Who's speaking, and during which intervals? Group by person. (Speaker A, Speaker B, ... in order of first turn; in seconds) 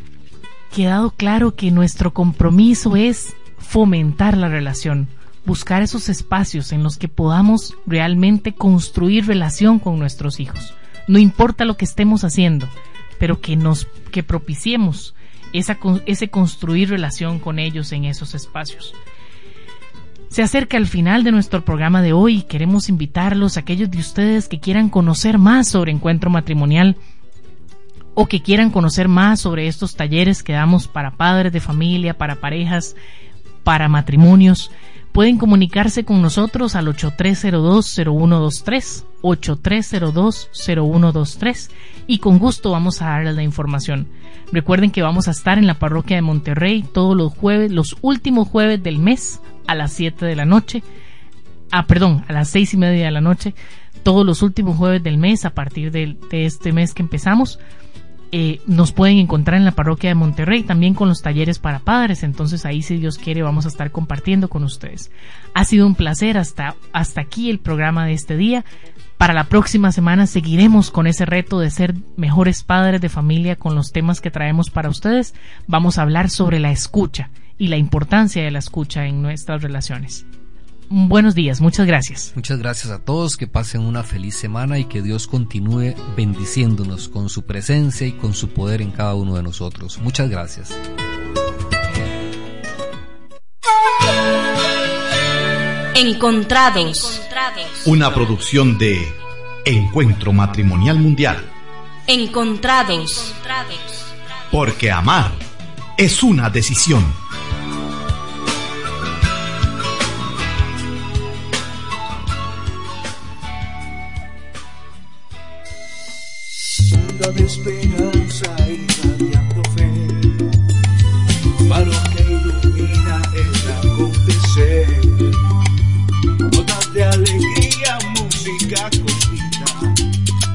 Speaker A: 0.7-18.9, 20.3-27.0, 28.2-33.0, 33.6-50.8, 51.7-57.6, 58.3-68.6, 69.2-80.2, 80.9-82.3
Speaker B: 82.3-90.8
Speaker C: 95.9-97.9, 102.1-104.1
Speaker D: 97.8-101.5, 104.5-105.5, 106.0-107.2
Speaker E: 116.9-120.5, 121.6-125.3, 126.5-130.0